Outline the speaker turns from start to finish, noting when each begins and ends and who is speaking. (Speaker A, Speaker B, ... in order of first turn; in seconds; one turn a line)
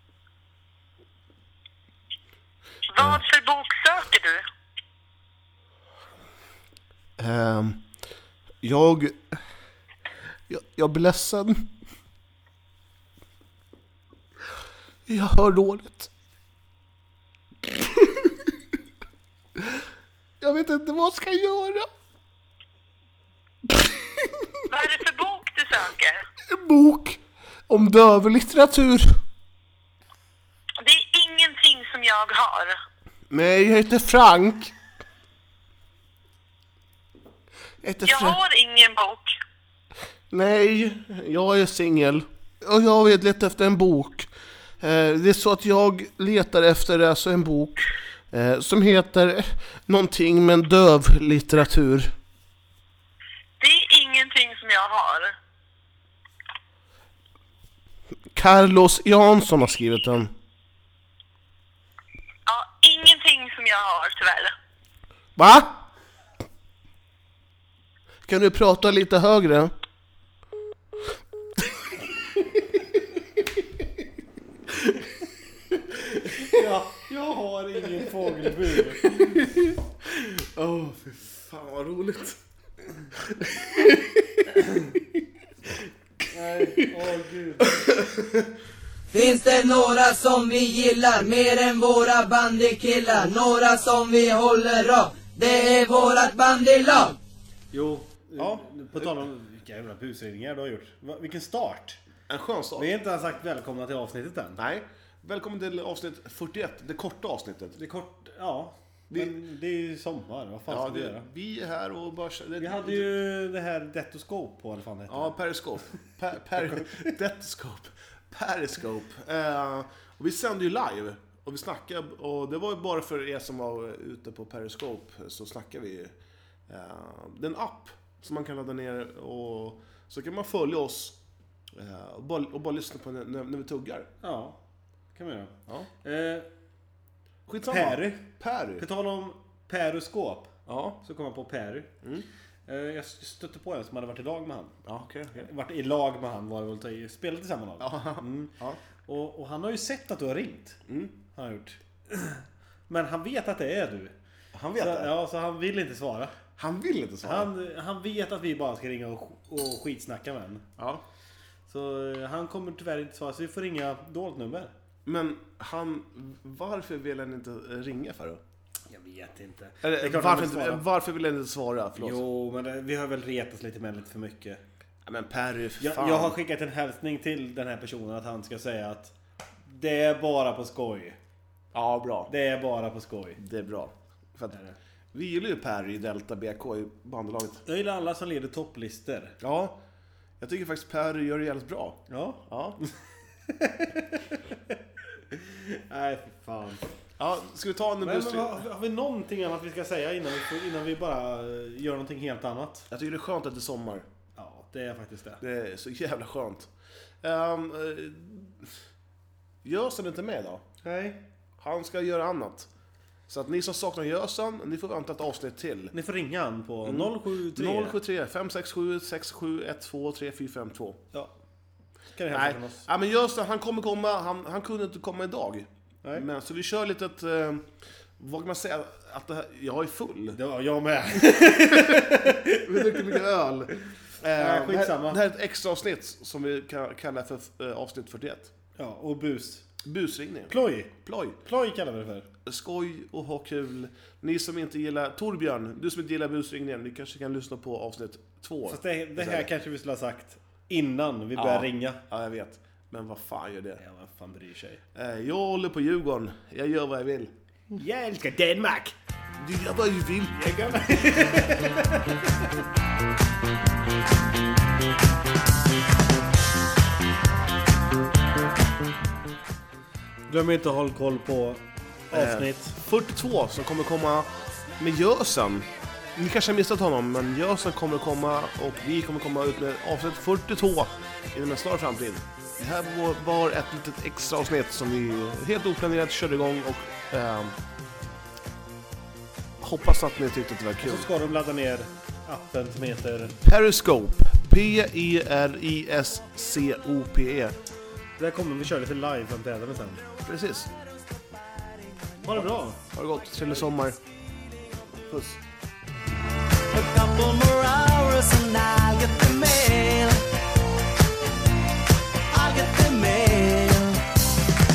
Speaker A: 2.9-4.4
Speaker B: 3.0-3.2
Speaker B: 7.2-7.8
Speaker B: 8.6-9.4
Speaker B: 10.5-11.7
Speaker B: 15.1-16.1
Speaker B: 17.9-18.4
Speaker B: 20.4-21.9
Speaker A: 24.7-26.1
Speaker B: 26.5-29.1
Speaker A: 30.8-32.8
Speaker B: 33.3-34.7
Speaker B: 37.8-38.4
Speaker A: 38.0-39.3
Speaker B: 40.3-52.1
Speaker A: 53.6-55.3
Speaker B: 58.3-60.3
Speaker A: 62.5-64.5
Speaker B: 65.4-65.8
Speaker B: 68.2-69.7
Speaker C: 76.2-79.4
Speaker B: 79.1-79.7
Speaker B: 80.2-82.4
Speaker B: 83.1-84.3
Speaker C: 86.3-87.8
Speaker B: 87.6-88.5
Speaker D: 89.1-97.2
Speaker C: 97.7-102.0
Speaker B: 98.4-99.1
Speaker B: 102.3-102.9
Speaker C: 102.8-104.6
Speaker B: 104.6-107.8
Speaker C: 107.7-111.2
Speaker B: 110.7-113.1
Speaker C: 112.6-115.3
Speaker B: 115.1-126.1
Speaker B: 126.7-131.2
Speaker B: 131.7-134.1
Speaker C: 134.2-134.6
Speaker C: 135.1-136.5
Speaker B: 137.5-138.8
Speaker C: 137.7-141.9
Speaker B: 140.7-141.0
Speaker C: 142.7-144.8
Speaker B: 144.8-145.5
Speaker C: 145.3-150.8
Speaker B: 147.8-148.8
Speaker B: 150.9-151.2
Speaker C: 151.3-154.1
Speaker B: 154.5-155.1
Speaker C: 154.8-156.3
Speaker B: 156.6-157.5
Speaker C: 157.2-160.6
Speaker B: 160.8-161.0
Speaker C: 161.7-164.7
Speaker B: 165.0-168.4
Speaker C: 168.9-170.8
Speaker B: 169.8-172.2
Speaker C: 172.0-174.6
Speaker B: 175.0-176.4
Speaker C: 175.8-179.1
Speaker C: 179.7-181.2
Speaker B: 181.7-182.3
Speaker C: 182.3-183.4
Speaker B: 183.4-184.6
Speaker B: 185.1-187.6
Speaker C: 187.6-189.3
Speaker B: 189.4-189.8
Speaker B: 190.4-192.8
Speaker C: 192.1-192.9
Speaker C: 193.5-194.8
Speaker C: 195.3-196.9
Speaker B: 197.2-198.6
Speaker C: 198.0-202.9
Speaker B: 202.9-204.1
Speaker C: 204.3-205.4
Speaker B: 205.4-206.7
Speaker B: 207.2-208.6
Speaker B: 209.6-210.6
Speaker C: 210.8-211.2
Speaker B: 211.6-212.7
Speaker B: 213.3-215.9
Speaker C: 215.9-218.0
Speaker B: 216.8-221.0
Speaker C: 222.1-222.8
Speaker B: 222.3-230.4
Speaker C: 230.3-233.1
Speaker B: 231.8-238.5
Speaker C: 234.4-235.2
Speaker C: 238.8-239.6
Speaker B: 239.8-241.4
Speaker C: 240.5-242.3
Speaker B: 242.4-249.5
Speaker C: 248.7-252.0
Speaker B: 251.3-253.8
Speaker C: 253.8-254.8
Speaker B: 254.9-257.3
Speaker C: 257.7-258.9
Speaker B: 259.4-261.1
Speaker C: 260.4-262.2
Speaker C: 270.3-272.8
Speaker B: 272.1-287.6
Speaker B: 289.6-291.1
Speaker C: 290.8-293.4
Speaker B: 293.4-297.5
Speaker C: 298.2-300.0
Speaker B: 300.2-300.7
Speaker C: 302.2-302.8
Speaker B: 302.3-304.0
Speaker B: 305.0-305.4
Speaker E: 306.7-310.2
Speaker E: 312.3-314.0